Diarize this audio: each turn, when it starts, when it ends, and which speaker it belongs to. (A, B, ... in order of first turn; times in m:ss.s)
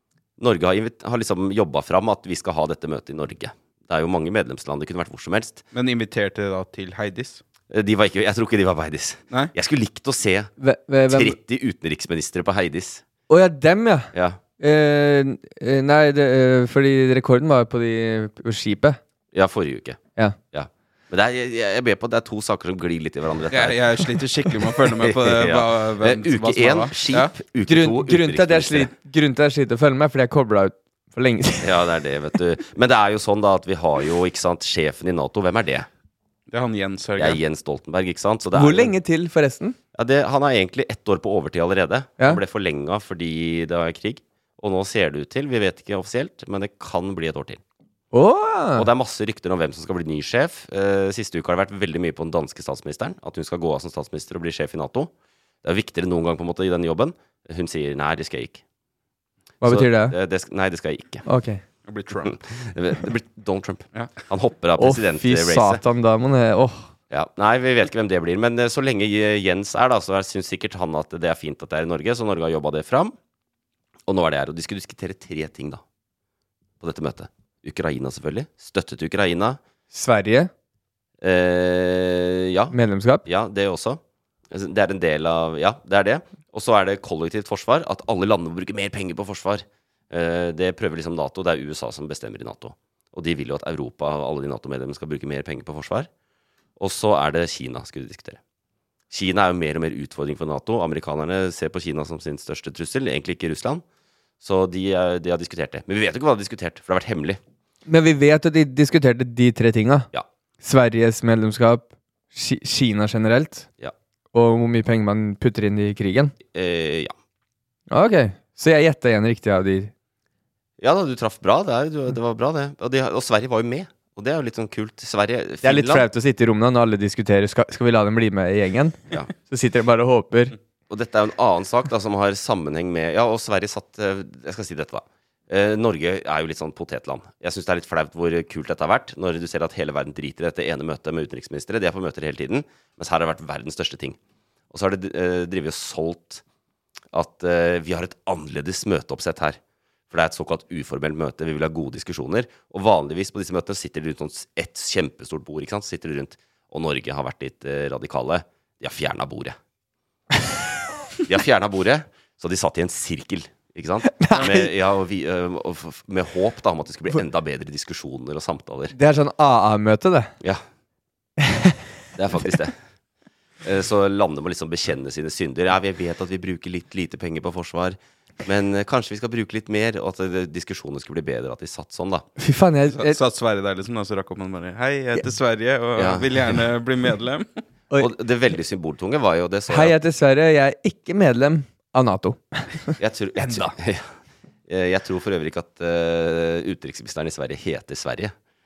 0:00.4-0:05.6 A
0:05.7-0:07.4 B
0:07.7-0:10.5 A
0:10.6-0:11.4 C
0:11.1-0:13.0 A
0:13.3-0:19.0 C
0:14.1-0:14.4 A
0:19.3-0:20.0 A
0:20.5-0:28.9 A
0:23.5-0:27.3 B
0:27.7-0:31.7 C
0:31.6-0:35.9 A
0:36.5-0:37.4 B
0:37.2-0:38.9 A
0:38.5-0:39.8 C
0:39.9-0:47.6 A
0:48.1-0:48.9 C
0:48.8-0:55.1 A
0:55.6-0:58.6 A
0:59.6-1:00.1 C
0:59.6-1:01.2 A
1:01.2-1:01.6 C
1:01.9-1:02.3 B
1:02.2-1:05.8 A
1:04.8-1:06.9 C
1:07.1-1:13.1 A
1:14.1-1:15.8 A
1:16.8-1:19.6 A
1:19.9-1:20.5 C
1:21.2-1:24.0 A
1:22.7-1:23.2 C
1:24.5-1:36.1 A
1:36.8-1:38.4 A
1:39.1-1:43.8 A
1:44.4-1:47.4 A
1:47.9-1:50.1 C
1:50.6-1:53.7 C
1:54.3-1:56.3 C
1:56.5-1:57.1 A
1:57.9-1:59.9 C
2:00.8-2:06.0 A
2:05.6-2:10.5 C
2:10.9-2:24.2 A
2:24.7-2:26.4 A
2:27.1-2:29.6 A
2:30.1-2:39.5 A
2:41.2-2:48.9 A
2:44.1-2:44.7 C
2:48.9-2:50.3 C
2:51.4-2:51.7 C
2:52.2-2:52.7 A
2:53.6-3:02.2 A
3:02.4-3:03.2 C
3:02.9-3:07.5 B
3:06.0-3:06.6 A
3:08.0-3:10.0 A
3:09.7-3:13.7 C
3:13.0-3:14.1 A
3:14.7-3:18.3 A